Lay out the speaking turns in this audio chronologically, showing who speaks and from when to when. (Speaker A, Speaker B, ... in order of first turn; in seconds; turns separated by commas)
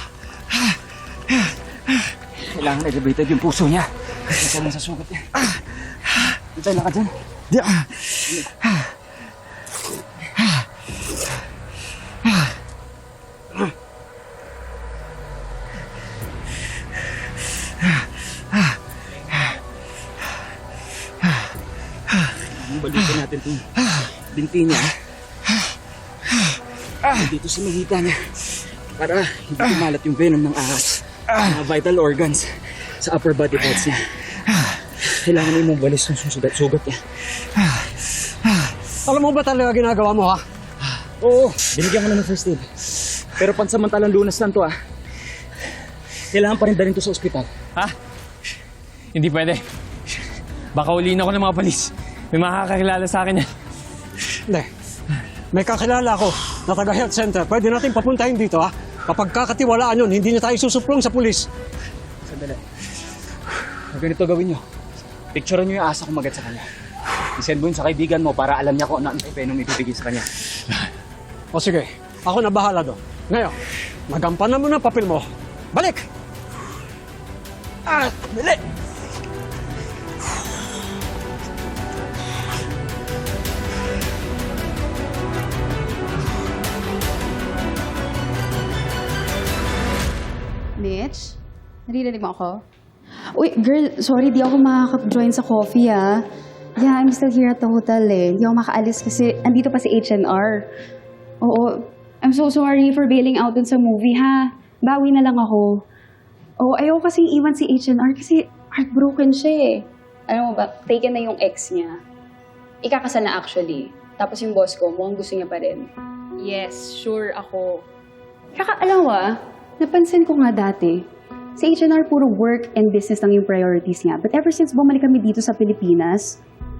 Speaker A: 2.4-5.5, Speaker A: 6.5-8.5, Speaker A: 22.4-25.0, Speaker A: 27.0-37.0, Speaker B: 39.1-40.4, Speaker A: 41.2-42.7, Speaker A: 43.4-44.7, Speaker A: 46.3-47.5, Speaker C: 49.1-49.6, Speaker C: 50.7-53.5, Speaker B: 55.5-61.5, Speaker A: 62.3-62.6, Speaker A: 63.9-64.6, Speaker A: 65.3-66.7, Speaker A: 67.4-70.3, Speaker B: 71.5-73.6, Speaker B: 74.1-76.1, Speaker B: 77.9-78.5, Speaker D: 90.8-92.6, Speaker D: 93.3-96.2, Speaker D: 96.8-100.7, Speaker D: 101.4-105.8, Speaker D: 106.6-112.0, Speaker D: 112.8-117.9, Speaker D: 118.5-121.0, Speaker D: 121.6-126.4